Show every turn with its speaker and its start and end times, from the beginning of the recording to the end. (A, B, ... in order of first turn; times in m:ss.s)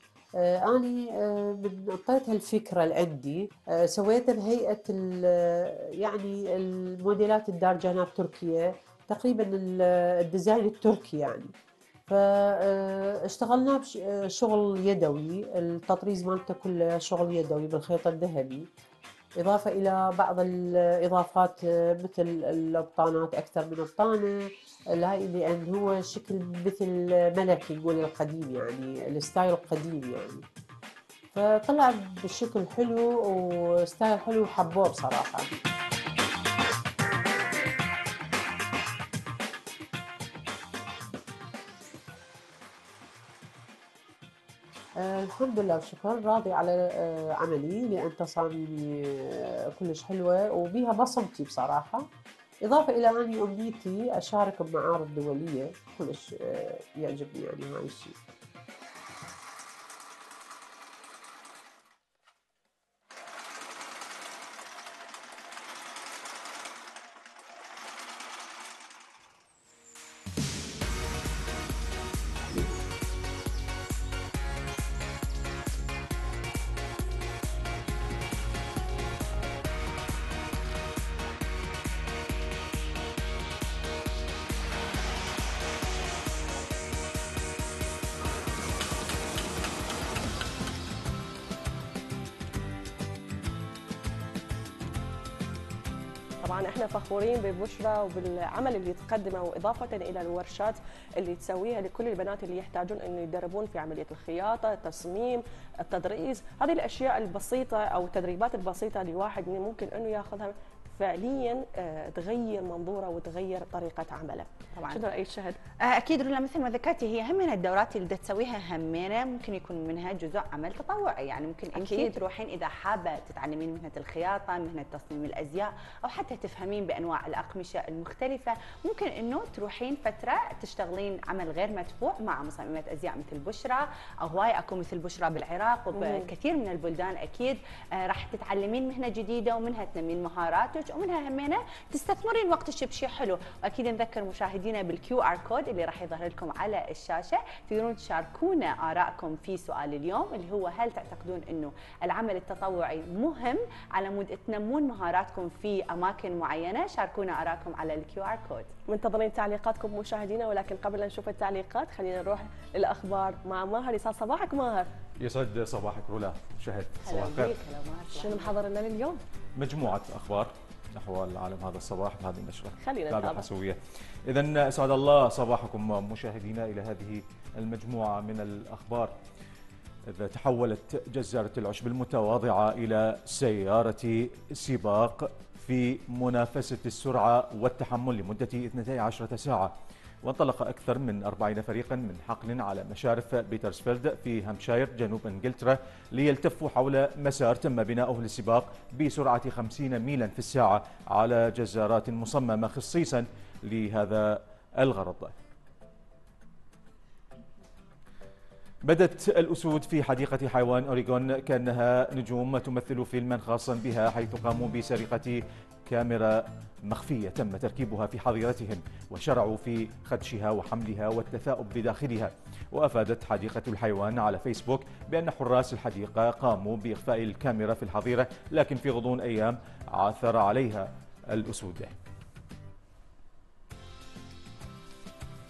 0:00.4-0:11.5 A
0:12.1-0:18.7 A
0:19.4-0:30.4 A
0:31.3-0:35.5 A
0:45.0-0:52.1 A
0:52.6-0:58.2 A
1:36.4-1:55.6 B
1:54.7-1:55.0 C
1:55.8-2:38.7 C
2:01.7-2:02.1 B
2:15.9-2:16.3 B
2:38.9-2:44.9 B
2:45.2-2:47.5 D
2:47.0-2:48.5 C
2:48.1-2:49.2 B
2:49.6-2:59.1 D
2:52.8-2:53.5 B
3:00.1-3:25.3 D
3:28.8-3:51.9 D